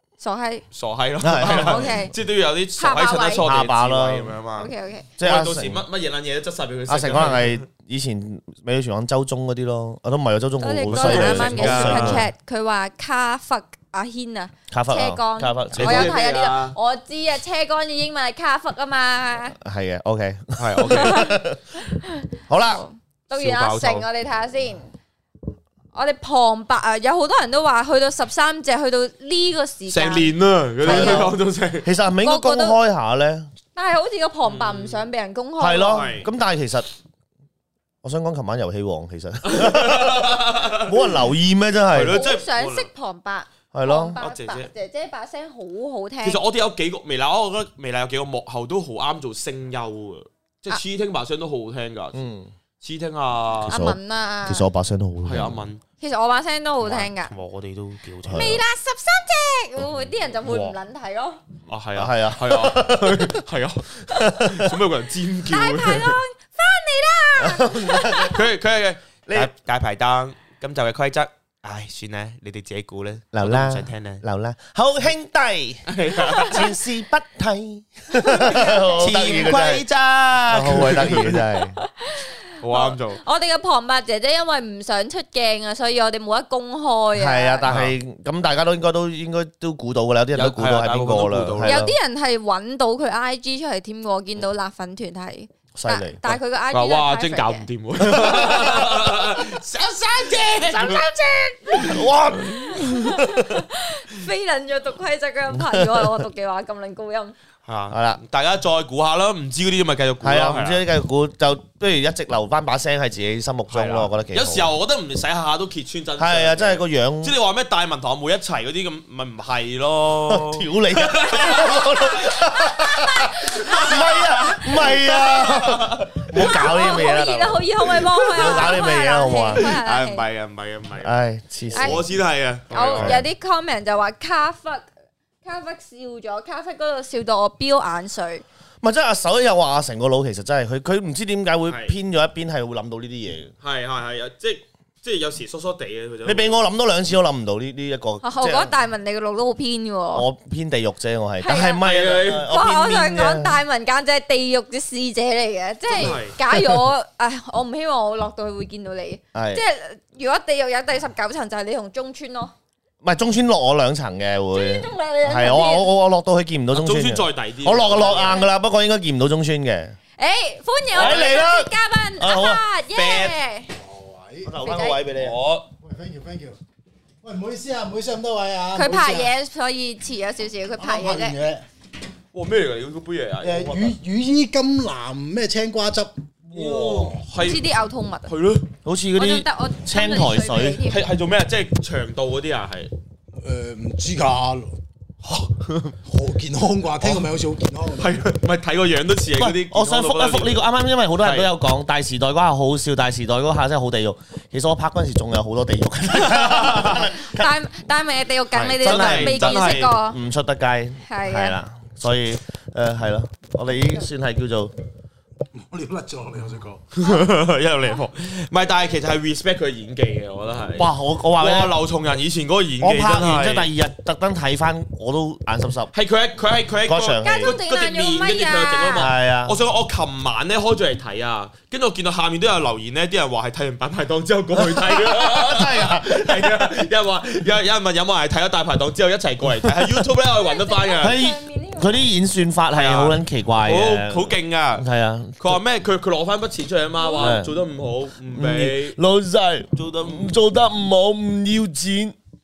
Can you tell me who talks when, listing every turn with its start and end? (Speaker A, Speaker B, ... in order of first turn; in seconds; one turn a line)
Speaker A: 0.2-0.7
Speaker B: 0.7-7.7
Speaker C: 1.2-1.9
Speaker A: 1.4-2.1
Speaker A: 2.8-3.5
Speaker C: 3.4-4.4
Speaker A: 4.6-5.1
Speaker C: 5.2-5.8
Speaker C: 6.9-12.3
Speaker A: 10.6-19.6
Speaker B: 10.9-12.3
Speaker C: 14.7-16.2
Speaker B: 15.8-16.8
Speaker C: 19.6-21.8
Speaker B: 20.6-21.3
Speaker A: 20.9-24.9
Speaker C: 22.5-22.8
Speaker B: 23.3-24.1
Speaker A: 25.9-30.3
Speaker B: 29.9-31.9
Speaker C: 30.8-33.5
Speaker A: 30.8-31.4
Speaker A: 32.2-32.8
Speaker A: 33.8-36.1
Speaker B: 34.4-35.0
Speaker C: 35.6-36.9
Speaker B: 35.9-36.3
Speaker C: 38.0-42.2
Speaker B: 39.5-41.0
Speaker B: 41.9-42.9
Speaker A: 42.1-46.4
Speaker C: 43.7-44.2
Speaker B: 44.2-44.7
Speaker B: 46.2-52.2
Speaker C: 52.1-52.5
Speaker B: 52.8-53.8
Speaker C: 53.6-55.6
Speaker A: 53.7-54.6
Speaker B: 55.2-55.8
Speaker A: 56.0-57.3
Speaker B: 56.8-58.6
Speaker C: 58.2-58.6
Speaker A: 58.3-61.4
Speaker B: 60.4-60.8
Speaker B: 61.7-66.2
Speaker C: 62.0-63.4
Speaker C: 64.1-64.8
Speaker A: 65.5-68.3
Speaker C: 67.4-68.4
Speaker B: 68.3-74.2
Speaker C: 73.3-81.8
Speaker B: 75.9-76.7
Speaker A: 78.2-79.1
Speaker B: 79.0-81.4
Speaker A: 81.8-87.7
Speaker B: 82.6-83.2
Speaker C: 87.2-92.0
Speaker B: 87.7-88.0
Speaker B: 90.3-91.8
Speaker A: 91.6-97.7
Speaker C: 95.8-96.4
Speaker B: 96.7-101.1
Speaker C: 98.1-98.8
Speaker A: 100.7-102.0
Speaker B: 101.7-102.0
Speaker C: 101.8-103.3
Speaker A: 102.7-107.3
Speaker C: 105.5-106.2
Speaker B: 107.7-110.8
Speaker C: 107.9-108.2
Speaker C: 110.2-114.7
Speaker B: 113.7-121.8
Speaker C: 116.2-117.4
Speaker C: 120.3-127.7
Speaker A: 122.7-124.1
Speaker B: 123.7-126.7
Speaker A: 126.3-130.2
Speaker B: 128.3-128.8
Speaker C: 128.3-129.8
Speaker B: 129.6-131.2
Speaker C: 131.0-132.1
Speaker B: 131.7-133.2
Speaker A: 131.7-132.0
Speaker A: 132.7-134.9
Speaker C: 132.9-133.3
Speaker A: 135.4-138.4
Speaker C: 138.8-143.5
Speaker B: 141.7-141.9
Speaker B: 143.6-146.6
Speaker C: 146.2-148.7
Speaker A: 148.2-150.3
Speaker C: 150.1-153.6
Speaker A: 151.4-162.5
Speaker B: 151.8-152.5
Speaker B: 155.9-156.4
Speaker C: 159.3-159.6
Speaker C: 163.0-170.0
Speaker A: 164.5-165.9
Speaker B: 166.7-168.4
Speaker A: 167.9-168.5
Speaker A: 170.2-173.7
Speaker C: 170.9-172.6
Speaker B: 173.0-173.3
Speaker D: 173.8-174.5
Speaker C: 174.4-175.4
Speaker A: 174.6-175.0
Speaker B: 175.1-175.7
Speaker D: 175.8-176.6
Speaker D: 177.2-179.3
Speaker A: 178.8-181.4
Speaker D: 180.8-181.7
Speaker B: 182.3-183.9
Speaker D: 183.4-187.2
Speaker B: 186.5-187.7
Speaker C: 186.6-187.1
Speaker A: 187.4-188.3
Speaker B: 188.3-188.7
Speaker C: 188.8-190.8
Speaker A: 189.2-191.0
Speaker B: 190.9-192.9
Speaker D: 193.4-194.8
Speaker D: 196.1-198.3
Speaker B: 197.0-197.3
Speaker B: 198.0-200.7
Speaker C: 199.4-207.5
Speaker B: 201.2-201.5
Speaker B: 206.2-207.0
Speaker A: 206.9-210.2
Speaker C: 208.5-214.7
Speaker B: 208.7-209.9
Speaker A: 211.1-211.6
Speaker D: 215.6-216.8
Speaker B: 216.9-223.7
Speaker C: 220.8-221.7
Speaker C: 222.8-225.9
Speaker B: 225.9-241.2
Speaker C: 226.9-227.6
Speaker A: 227.2-229.1
Speaker C: 229.0-229.6
Speaker C: 234.6-236.6
Speaker C: 239.5-240.0
Speaker A: 240.3-242.0
Speaker C: 241.0-245.6
Speaker B: 242.7-244.9
Speaker B: 245.4-249.0
Speaker A: 247.0-247.4
Speaker C: 247.2-247.5
Speaker C: 248.3-252.2
Speaker B: 249.8-250.3